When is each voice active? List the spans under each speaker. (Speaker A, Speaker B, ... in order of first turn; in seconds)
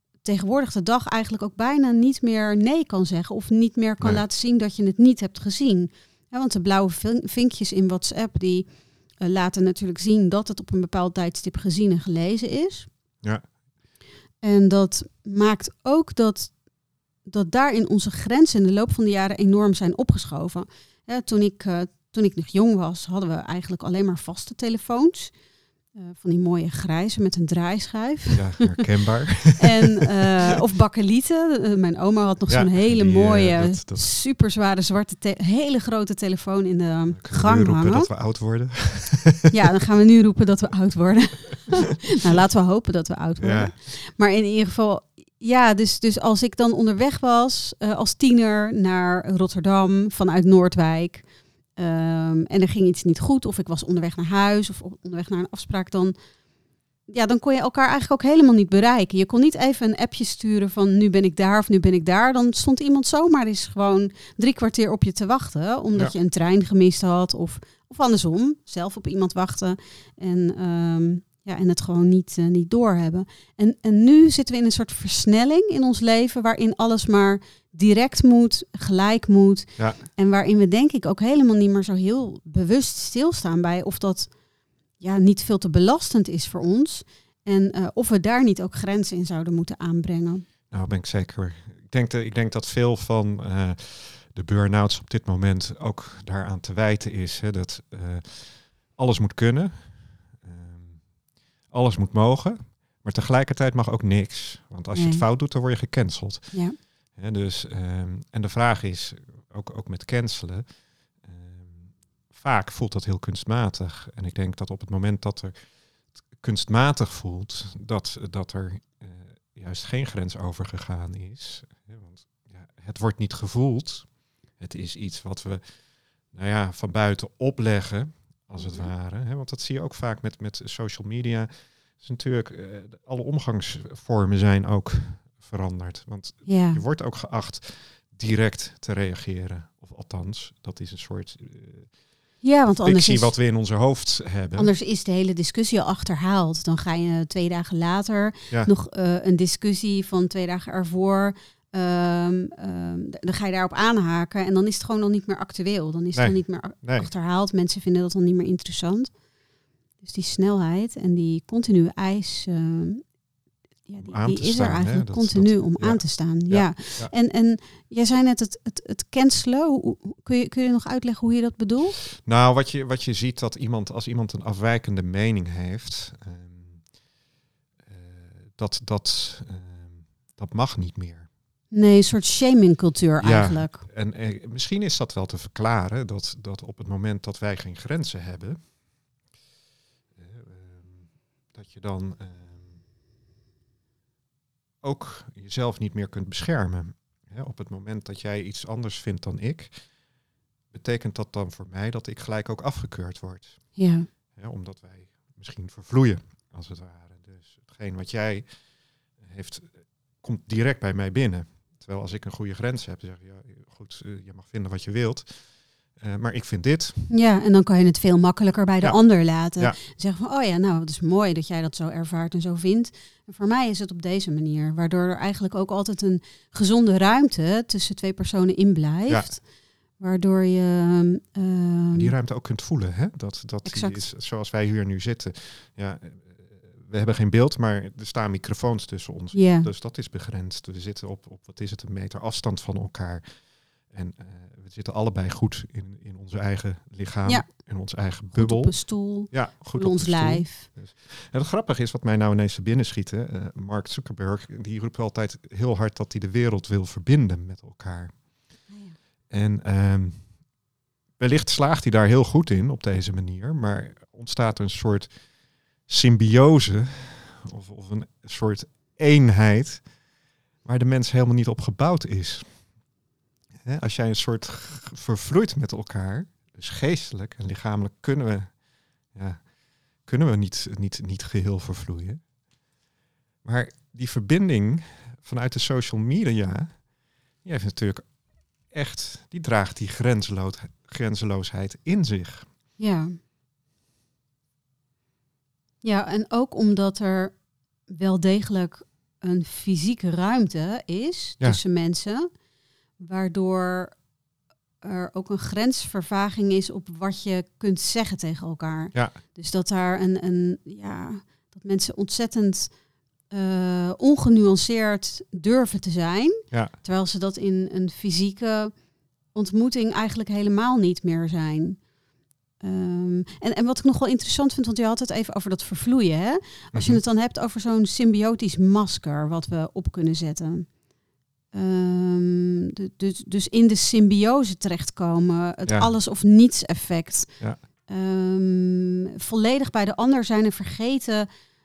Speaker A: 0.2-8.7, 9.2-12.9, 14.4-16.5, 17.2-25.3, 25.9-28.8, 29.6-38.1, 39.5-51.2, 51.8-56.1, 57.1-84.3, 85.0-90.5, 104.9-105.2, 128.6-128.9, 136.4-136.8, 142.4-143.3, 144.6-159.1, 160.0-163.0, 163.8-172.0, 181.7-183.8, 203.8-204.1, 217.1-229.4, 230.0-232.1, 233.6-234.0, 239.3-239.7, 248.3-250.7, 258.7-258.9, 292.8-293.1, 295.8-297.3, 297.9-302.3, 303.0-304.0, 304.8-312.7, 313.3-318.8, 319.3-321.8, 322.6-330.8, 331.5-341.3
Speaker B: 13.2-13.5, 28.3-29.7, 32.5-34.1, 37.1-39.5, 43.4-43.7, 90.7-101.1, 101.7-115.8, 116.3-141.9, 142.8-144.7, 156.2-157.1, 164.0-167.1, 172.1-177.0, 177.8-181.3, 183.2-188.6, 190.1-192.8, 194.8-199.9, 200.7-203.8, 204.3-208.6, 209.2-217.1, 229.1-229.3, 231.9-258.2, 259.3-260.4, 261.2-265.2, 265.9-269.9, 270.6-272.6, 273.6-278.6, 279.1-282.2, 283.4-286.8, 287.4-288.1, 288.7-292.5, 326.7-327.0, 335.6-335.9